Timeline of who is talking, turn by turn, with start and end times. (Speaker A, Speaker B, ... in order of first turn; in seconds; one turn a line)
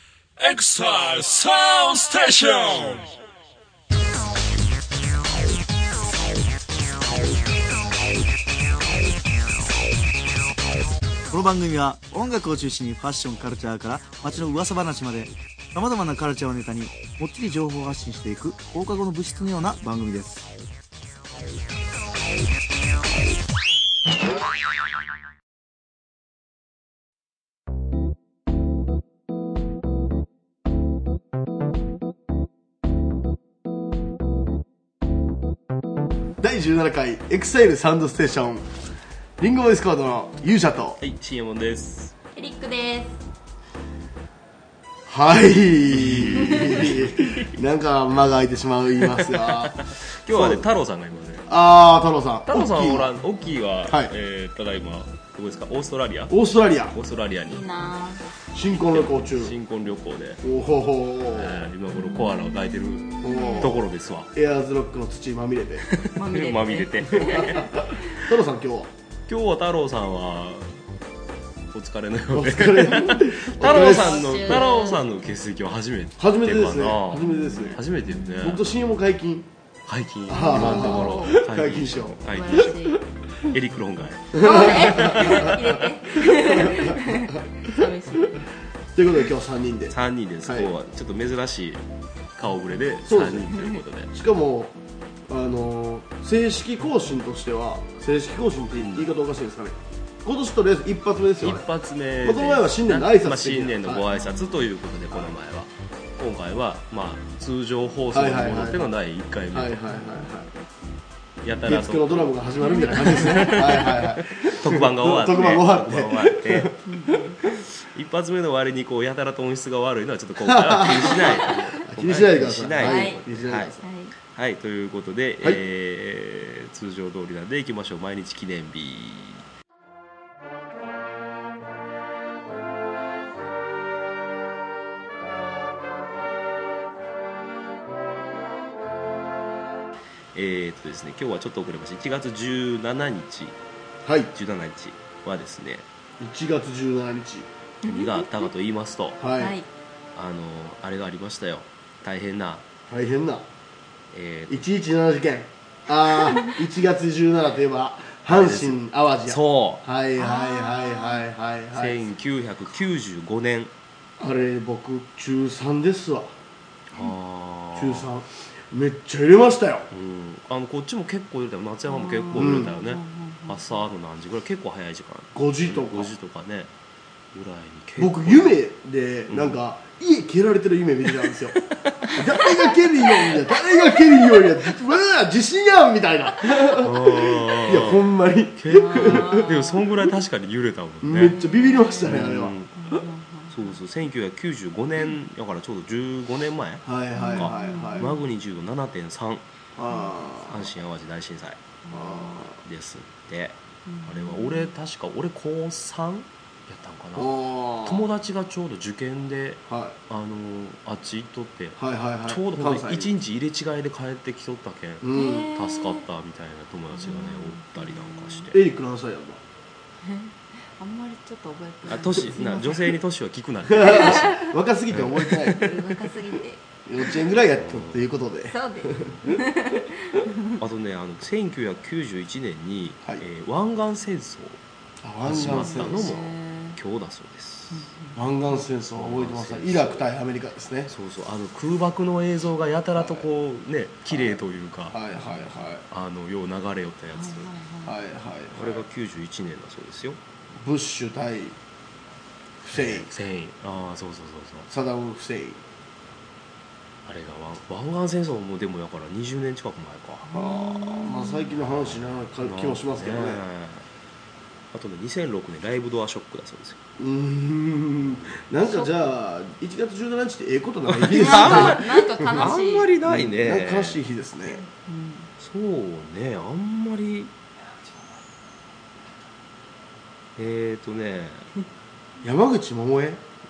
Speaker A: 0.4-3.1
Speaker B: 11.3-20.4
Speaker C: 36.4-38.7
Speaker C: 39.4-41.0
Speaker D: 41.0-42.1
Speaker E: 42.3-43.2
Speaker C: 45.1-50.6
Speaker D: 45.9-47.4
Speaker D: 49.0-51.5
Speaker C: 51.5-53.1
Speaker D: 52.5-56.4
Speaker C: 56.3-56.9
Speaker D: 56.9-57.6
Speaker E: 57.5-58.2
Speaker C: 58.5-59.5
Speaker D: 58.7-60.4
Speaker C: 60.4-61.6
Speaker D: 61.3-64.3
Speaker C: 63.2-63.8
Speaker E: 63.3-63.7
Speaker C: 64.3-65.8
Speaker D: 65.9-68.2
Speaker E: 66.2-67.7
Speaker C: 67.3-68.9
Speaker D: 69.3-70.8
Speaker D: 71.7-78.6
Speaker C: 72.3-74.7
Speaker E: 73.6-75.0
Speaker C: 76.2-77.8
Speaker E: 77.3-77.8
Speaker C: 78.4-79.5
Speaker D: 79.9-82.7
Speaker C: 80.3-82.7
Speaker E: 80.4-81.4
Speaker E: 82.3-83.0
Speaker D: 83.5-85.8
Speaker C: 84.3-85.6
Speaker E: 84.4-88.5
Speaker C: 86.2-87.0
Speaker C: 88.9-90.7
Speaker D: 89.9-91.8
Speaker D: 92.4-94.1
Speaker C: 93.1-93.5
Speaker C: 94.1-94.8
Speaker C: 95.3-101.6
Speaker D: 98.7-99.1
Speaker D: 101.4-109.8
Speaker C: 102.2-104.0
Speaker C: 108.1-108.8
Speaker C: 109.5-110.5
Speaker D: 111.4-112.3
Speaker C: 111.7-116.7
Speaker E: 112.6-113.6
Speaker D: 113.0-116.7
Speaker E: 116.8-117.3
Speaker D: 117.8-129.4
Speaker C: 120.5-123.8
Speaker E: 122.8-123.2
Speaker E: 123.8-124.1
Speaker D: 140.3-143.5
Speaker C: 144.0-144.3
Speaker D: 144.3-145.8
Speaker C: 146.2-147.5
Speaker D: 147.8-149.2
Speaker E: 147.9-148.3
Speaker C: 149.2-149.6
Speaker E: 149.3-149.7
Speaker D: 150.1-152.6
Speaker C: 152.9-153.4
Speaker D: 154.1-154.7
Speaker C: 154.5-162.0
Speaker D: 158.3-159.8
Speaker E: 160.2-161.2
Speaker D: 161.7-163.7
Speaker C: 164.2-166.3
Speaker D: 166.9-168.1
Speaker C: 167.7-169.9
Speaker D: 169.9-176.7
Speaker E: 171.9-173.8
Speaker C: 172.4-172.7
Speaker C: 175.3-176.1
Speaker D: 177.3-178.6
Speaker C: 178.0-189.5
Speaker D: 179.3-179.6
Speaker D: 186.7-191.3
Speaker E: 188.7-189.9
Speaker C: 191.0-192.5
Speaker E: 191.3-193.8
Speaker D: 192.1-192.7
Speaker D: 193.5-196.8
Speaker C: 196.8-198.1
Speaker E: 197.1-198.2
Speaker D: 197.3-199.4
Speaker C: 199.8-200.6
Speaker D: 200.5-201.8
Speaker E: 201.8-202.4
Speaker C: 201.9-202.6
Speaker D: 202.6-218.6
Speaker E: 203.9-204.7
Speaker C: 207.2-208.0
Speaker C: 209.7-209.9
Speaker C: 211.8-213.1
Speaker C: 215.0-215.5
Speaker E: 215.1-216.0
Speaker E: 216.9-218.5
Speaker C: 218.5-219.4
Speaker E: 220.0-222.9
Speaker D: 221.9-225.6
Speaker C: 223.8-225.7
Speaker E: 224.0-224.4
Speaker E: 225.5-226.6
Speaker C: 226.8-229.4
Speaker D: 227.5-228.0
Speaker E: 228.5-230.5
Speaker D: 230.6-234.6
Speaker C: 235.0-236.1
Speaker D: 235.2-237.8
Speaker E: 235.4-236.8
Speaker E: 237.7-238.2
Speaker C: 238.1-240.9
Speaker D: 238.9-240.1
Speaker D: 240.9-247.5
Speaker C: 243.0-243.2
Speaker C: 244.1-244.4
Speaker C: 244.9-245.8
Speaker E: 247.1-248.0
Speaker C: 247.8-248.8
Speaker D: 248.5-250.2
Speaker C: 250.6-251.5
Speaker C: 252.6-253.1
Speaker D: 252.7-254.7
Speaker C: 254.7-255.6
Speaker D: 257.1-260.3
Speaker E: 260.3-261.5
Speaker C: 260.3-263.4
Speaker D: 262.4-263.9
Speaker D: 264.7-266.8
Speaker C: 267.0-272.5
Speaker D: 268.0-268.3
Speaker E: 268.6-269.1
Speaker D: 270.9-274.0
Speaker E: 271.1-272.9
Speaker C: 273.0-274.6
Speaker E: 274.5-275.3
Speaker D: 275.4-277.3
Speaker D: 280.4-281.5
Speaker C: 282.2-283.2